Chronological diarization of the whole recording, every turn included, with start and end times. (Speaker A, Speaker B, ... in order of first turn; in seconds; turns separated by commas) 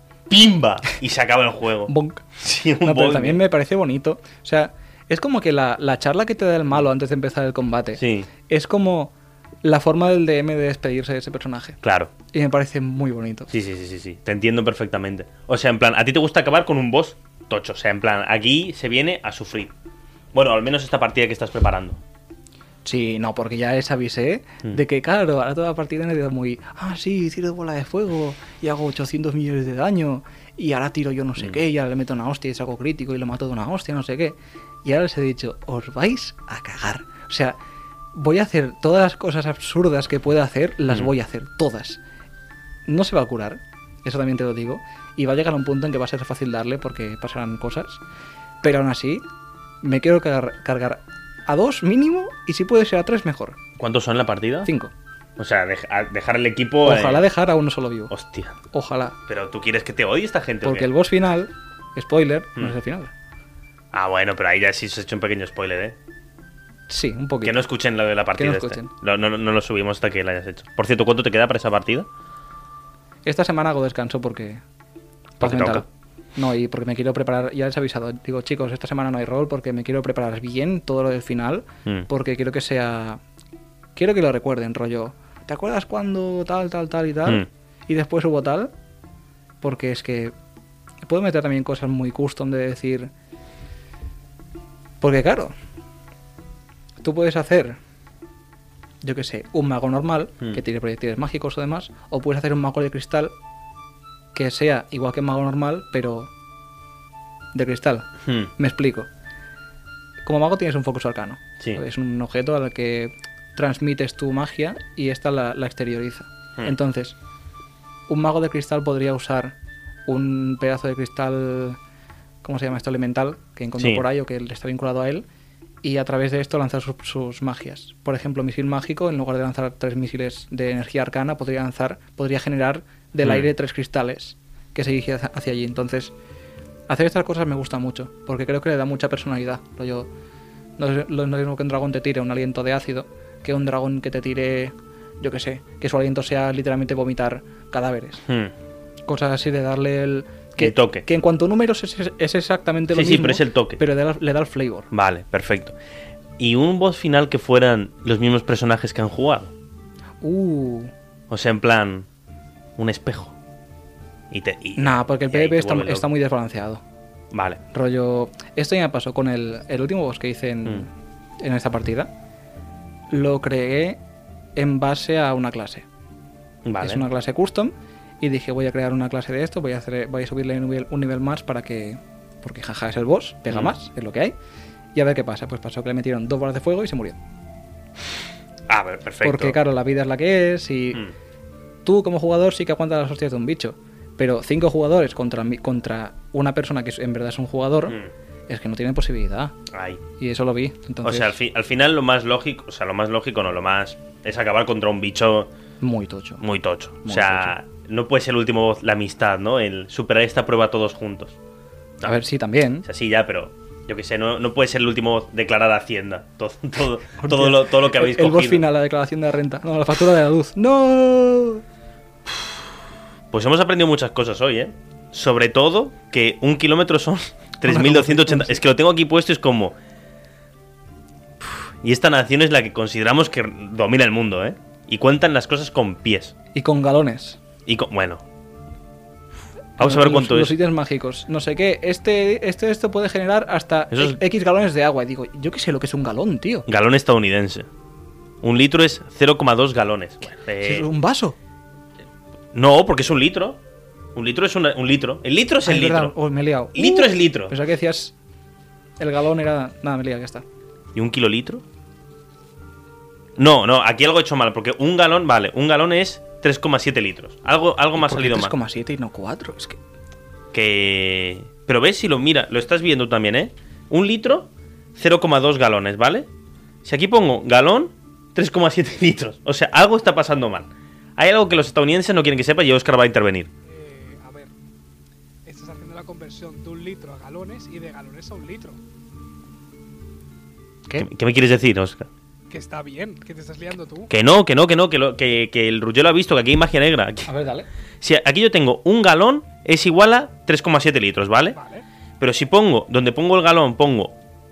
Speaker A: 0.3-3.4, Speaker B: 1.9-2.3, Speaker B: 2.8-11.8, Speaker A: 8.0-8.3, Speaker A: 11.8-12.1, Speaker B: 12.3-13.5, Speaker A: 13.5-19.7, Speaker A: 20.3-22.0, Speaker B: 22.9-37.6, Speaker B: 38.1-42.0, Speaker B: 42.9-48.0, Speaker B: 48.6-49.2, Speaker B: 49.8-53.6, Speaker A: 53.8-54.7, Speaker B: 54.6-54.9, Speaker A: 55.4-57.2, Speaker B: 56.8-58.1, Speaker A: 58.1-58.6, Speaker B: 58.7-59.2, Speaker A: 59.3-60.9, Speaker B: 60.6-63.1, Speaker A: 63.9-66.0, Speaker B: 66.9-67.6, Speaker A: 67.4-72.1, Speaker B: 68.4-68.9, Speaker B: 73.2-74.6, Speaker A: 75.4-75.9, Speaker B: 75.4-83.2, Speaker B: 84.0-88.7, Speaker B: 89.6-90.3, Speaker B: 91.0-93.1, Speaker B: 95.0-95.5, Speaker B: 97.0-97.8, Speaker B: 99.0-103.3, Speaker B: 104.3-106.3, Speaker B: 107.5-109.1, Speaker A: 108.2-108.5, Speaker B: 110.2-117.2, Speaker B: 118.1-119.5, Speaker B: 120.1-121.8, Speaker B: 122.4-125.2, Speaker A: 123.8-124.0, Speaker B: 125.8-136.1, Speaker B: 136.9-140.1, Speaker B: 140.8-148.2, Speaker A: 148.3-148.5, Speaker B: 149.1-154.9, Speaker A: 150.6-151.1, Speaker A: 152.9-153.8, Speaker A: 154.9-155.7, Speaker A: 156.4-159.5, Speaker B: 160.2-160.9, Speaker A: 161.3-162.1, Speaker A: 162.8-163.3, Speaker A: 164.3-166.1, Speaker B: 164.8-166.8, Speaker A: 167.3-167.6, Speaker B: 167.7-172.1, Speaker B: 173.1-174.0, Speaker B: 174.6-175.9, Speaker A: 176.6-177.1, Speaker B: 176.8-184.3, Speaker B: 184.9-187.2, Speaker A: 188.7-189.6, Speaker B: 189.2-191.1, Speaker B: 191.8-199.6, Speaker A: 199.7-200.0, Speaker B: 200.2-201.4, Speaker A: 201.0-205.5, Speaker B: 205.8-206.4, Speaker A: 206.4-211.4, Speaker B: 207.0-207.5, Speaker B: 212.0-212.9, Speaker A: 212.8-218.7, Speaker B: 217.2-221.6, Speaker A: 223.3-229.7, Speaker B: 227.7-228.6, Speaker A: 231.4-236.3, Speaker B: 236.5-237.4, Speaker A: 237.7-238.2, Speaker A: 239.8-240.6, Speaker B: 239.8-246.7, Speaker A: 243.9-244.2, Speaker A: 246.7-247.7, Speaker A: 248.4-250.9, Speaker B: 250.6-251.3, Speaker A: 252.5-253.6, Speaker A: 254.1-256.1, Speaker B: 255.6-258.1, Speaker A: 256.7-257.6, Speaker B: 259.0-260.4, Speaker A: 260.9-261.6, Speaker A: 263.4-268.5, Speaker B: 268.0-269.8, Speaker A: 270.5-276.3, Speaker A: 276.8-283.5, Speaker C: 283.6-284.5, Speaker C: 285.4-288.8, Speaker A: 291.0-292.1, Speaker C: 292.5-294.1, Speaker A: 294.1-297.3, Speaker B: 297.3-297.7, Speaker A: 298.0-301.6, Speaker C: 301.6-301.8, Speaker A: 302.2-304.1